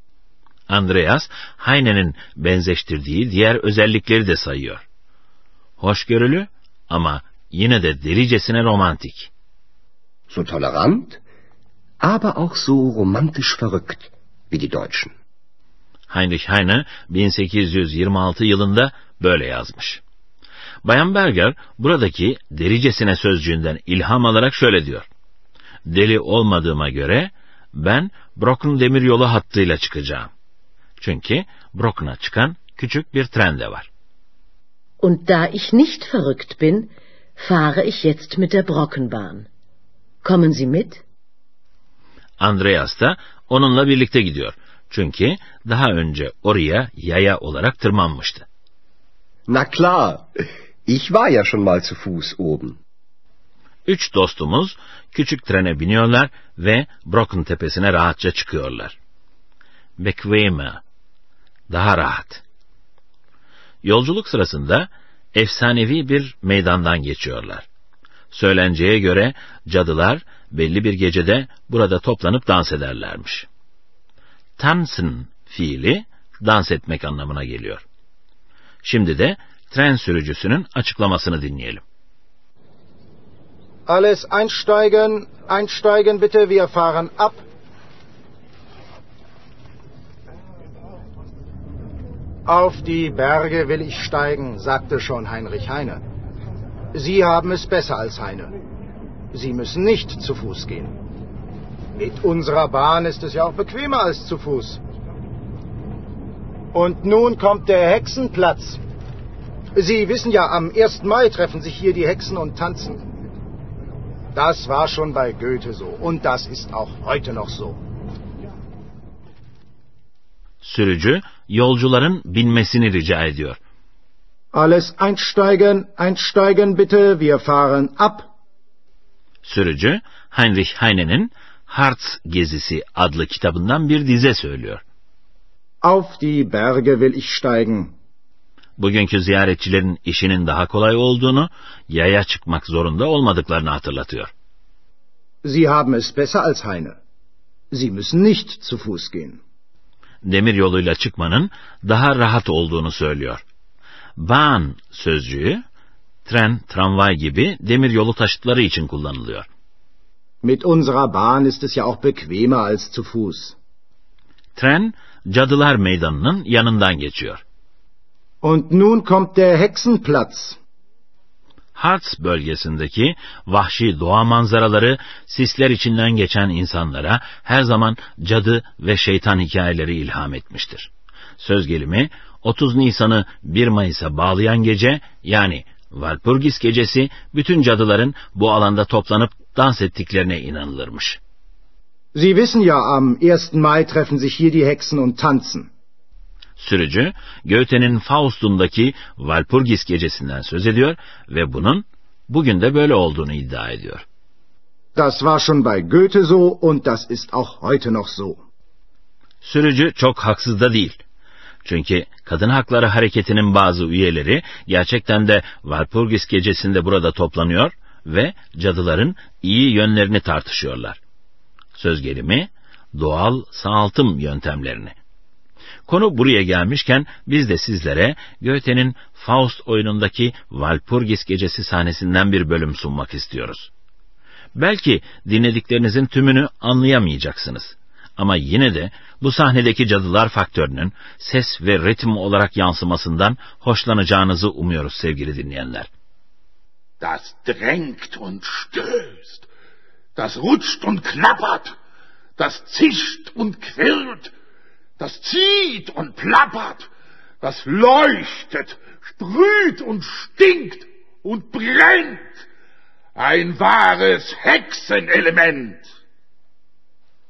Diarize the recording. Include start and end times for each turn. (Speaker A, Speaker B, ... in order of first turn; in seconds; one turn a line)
Speaker A: 0.7-4.8
Speaker A: 5.8-9.3
Speaker B: 10.3-11.2
Speaker B: 12.0-15.1
Speaker A: 16.1-20.0
Speaker A: 20.8-25.1
Speaker A: 25.9-30.3
Speaker A: 31.0-33.9
Speaker C: 35.0-39.5
Speaker C: 40.2-41.0
Speaker A: 42.4-48.5
Speaker B: 49.5-50.2
Speaker B: 50.9-52.8
Speaker A: 53.9-59.0
Speaker A: 60.0-60.8
Speaker A: 61.7-62.4
Speaker A: 63.8-67.7
Speaker A: 68.3-73.5
Speaker A: 74.6-77.8
Speaker A: 78.8-81.8
Speaker D: 83.8-87.4
Speaker D: 92.5-96.0
Speaker D: 96.9-98.5
Speaker D: 99.3-100.9
Speaker D: 101.9-104.8
Speaker D: 106.7-108.8
Speaker D: 109.7-113.0
Speaker D: 114.3-117.8
Speaker A: 120.6-123.6
Speaker D: 124.5-128.3
Speaker A: 129.4-134.8
Speaker D: 135.8-137.9
Speaker A: 138.8-144.3
Speaker D: 145.4-147.0
Speaker D: 147.7-149.4
Speaker A: 150.2-153.4
Speaker A: 154.2-155.6
Speaker A: 156.2-159.5
Speaker D: 160.4-163.6
Speaker A: 164.6-167.4
Speaker D: 168.4-170.6
Speaker A: 171.7-191.2
Speaker D: 192.1-195.7
Speaker A: 196.6-204.0
Speaker D: 204.9-208.4
Speaker A: 209.4-211.0
Speaker A: 211.6-221.0
Speaker A: 221.7-224.9
Speaker A: 225.8-233.7
Speaker A: 234.5-245.9
Speaker E: 247.0-249.4
Speaker E: 250.2-251.8
Speaker E: 252.4-254.3
Speaker E: 255.0-256.9
Speaker E: 257.4-262.4
Speaker E: 263.1-265.9